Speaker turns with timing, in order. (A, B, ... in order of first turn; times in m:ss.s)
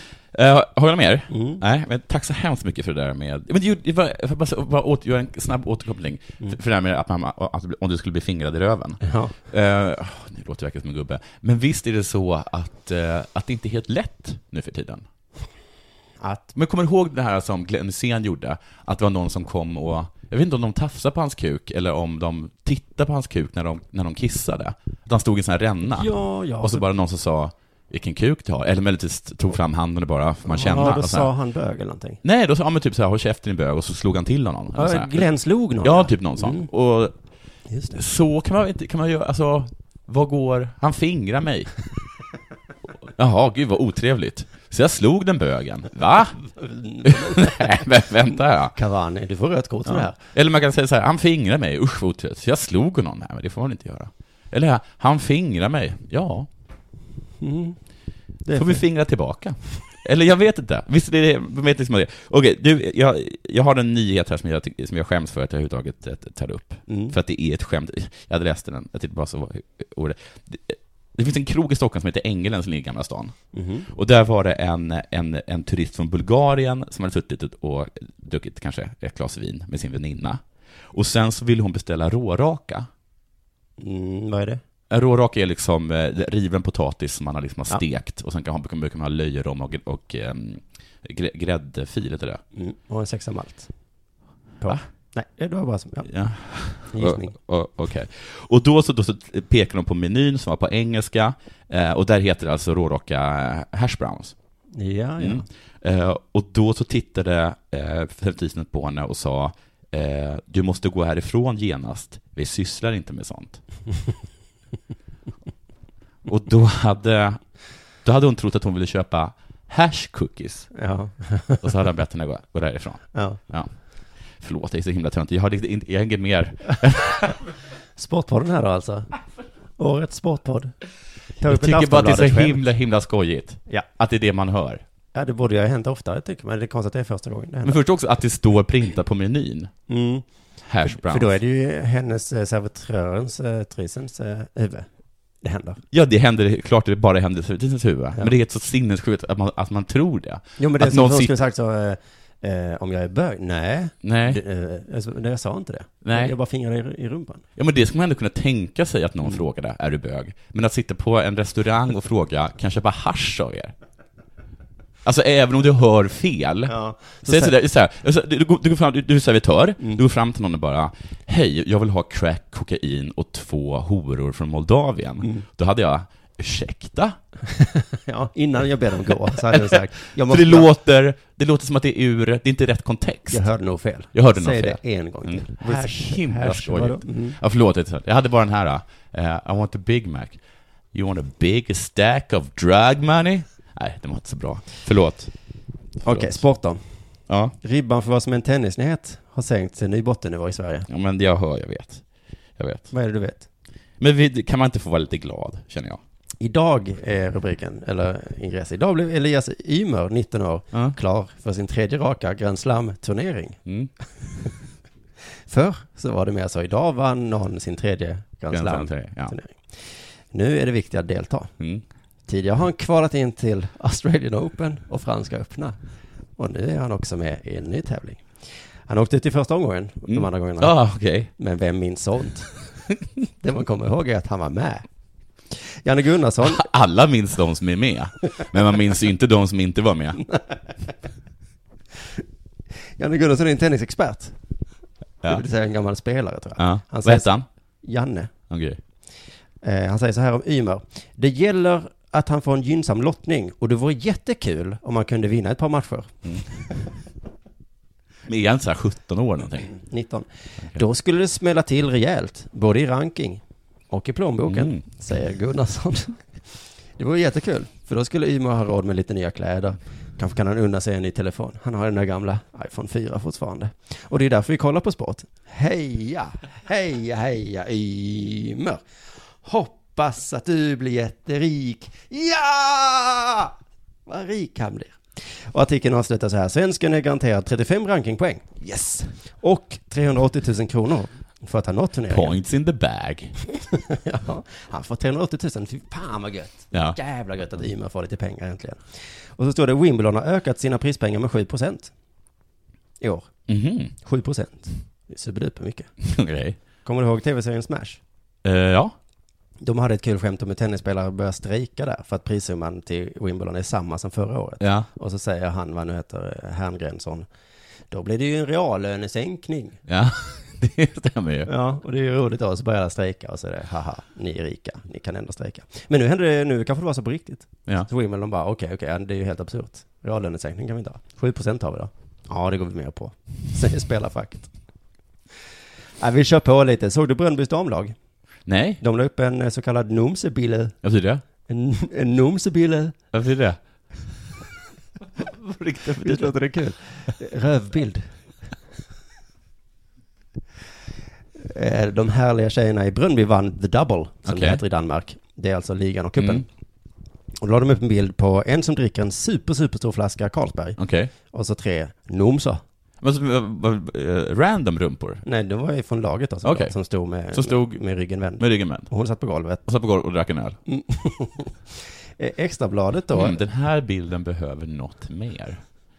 0:00.3-0:15.1 A
0:01.3-0:01.6 B
0:09.0-0:09.3 B
0:16.2-0:16.5 B
0:16.6-0:31.3 A
0:25.9-0:26.8 B
0:30.5-0:32.2 B
0:32.2-0:35.3 A
0:34.8-0:36.7 B
0:35.8-0:37.1 A
0:37.7-0:38.0 B
0:38.0-0:41.8 A
0:43.2-0:46.4 A
0:46.5-0:47.8 B
0:47.0-0:48.8 A
0:48.8-0:50.1 B
0:49.9-0:56.5 A
0:57.4-0:57.8 B
0:58.4-0:58.8 B
0:58.5-1:13.4 A
1:06.9-1:07.2 B
1:13.5-1:13.9 B
1:13.9-1:20.4 A
1:20.9-1:22.9 A
1:23.8-1:24.6 B
1:24.9-1:32.4 A
1:32.6-1:33.7 B
1:34.6-1:36.1 B
1:36.1-1:44.4 A
1:36.9-1:37.3 B
1:44.7-1:45.5 B
1:45.2-1:53.6 A
1:56.3-1:57.4 A
1:58.0-2:00.7 A
2:00.8-2:01.6 B
2:01.6-2:03.7 A
2:04.4-2:07.4 A
2:08.0-2:09.1 B
2:09.8-2:10.7 B
2:11.4-2:12.6 B
2:11.5-2:14.8 A
2:15.1-2:17.8 B
2:17.6-2:19.7 A
2:19.9-2:20.3 B
2:20.7-2:21.3 A
2:20.9-2:24.9 B
2:25.4-2:25.8 B
2:25.9-2:31.3 A
2:30.6-2:37.4 B
2:34.0-2:34.4 A
2:36.0-2:36.3 A
2:37.6-2:43.7 A
2:45.0-2:57.2 A
2:46.7-2:47.6 B
2:57.6-3:00.7 B
2:59.5-3:03.5 A
3:03.3-3:07.4 B
3:04.1-3:10.4 A
3:10.9-3:15.3 A
3:16.0-3:16.9 B
3:16.0-3:16.4 A
3:17.3-3:17.5 A
3:17.6-3:20.9 B
3:20.9-3:22.0 A
3:22.6-3:22.9 A
3:22.9-3:23.5 B
3:24.0-3:26.0 A
3:26.4-3:33.6 B
3:33.7-3:33.9 A
3:35.5-3:41.5 B
3:38.5-3:39.4 A
3:42.3-3:45.8 B
3:46.4-3:48.4 B
3:48.9-3:50.8 B
3:50.1-3:51.3 A
3:51.4-3:52.5 B
3:53.4-3:54.8 B
3:55.5-3:56.6 B
3:56.4-4:00.2 A
4:03.0-4:04.4 B
4:05.2-4:07.3 B
4:06.6-4:07.4 A
4:07.8-4:08.3 B
4:08.5-4:08.8 A
4:09.6-4:16.3 B
4:18.3-4:19.7 A
4:19.8-4:26.2 B
4:24.5-4:24.8 A
4:27.0-4:38.8 B
4:39.4-4:43.6 B
4:44.1-4:52.4 B
4:52.1-4:53.4 A
4:53.7-5:01.9 B
5:03.0-5:03.3 B
5:03.5-5:03.9 A
5:04.0-5:05.9 B
5:06.0-5:06.6 A
5:06.8-5:08.0 B
5:08.4-5:08.9 A
5:09.6-5:17.3 B
5:14.6-5:14.9 A
5:17.9-5:19.8 B
5:19.9-5:21.5 A
5:21.5-5:34.5 B
5:36.0-5:38.0 B
5:38.5-5:38.8 A
5:38.8-5:40.8 B
5:40.8-5:41.2 A
5:41.5-5:43.0 B
5:43.1-5:43.6 A
5:45.2-5:46.4 A
5:45.9-5:48.0 B
5:51.4-5:56.4 B
5:54.3-5:54.6 A
5:56.2-5:56.4 A
5:57.4-6:02.6 B
6:00.8-6:01.1 A
6:03.0-6:05.2 A
6:05.2-6:09.6 B
6:06.4-6:06.7 A
6:07.3-6:07.8 A
6:08.4-6:08.9 A
6:09.7-6:10.6 A
6:10.7-6:13.4 B
6:13.2-6:15.6 A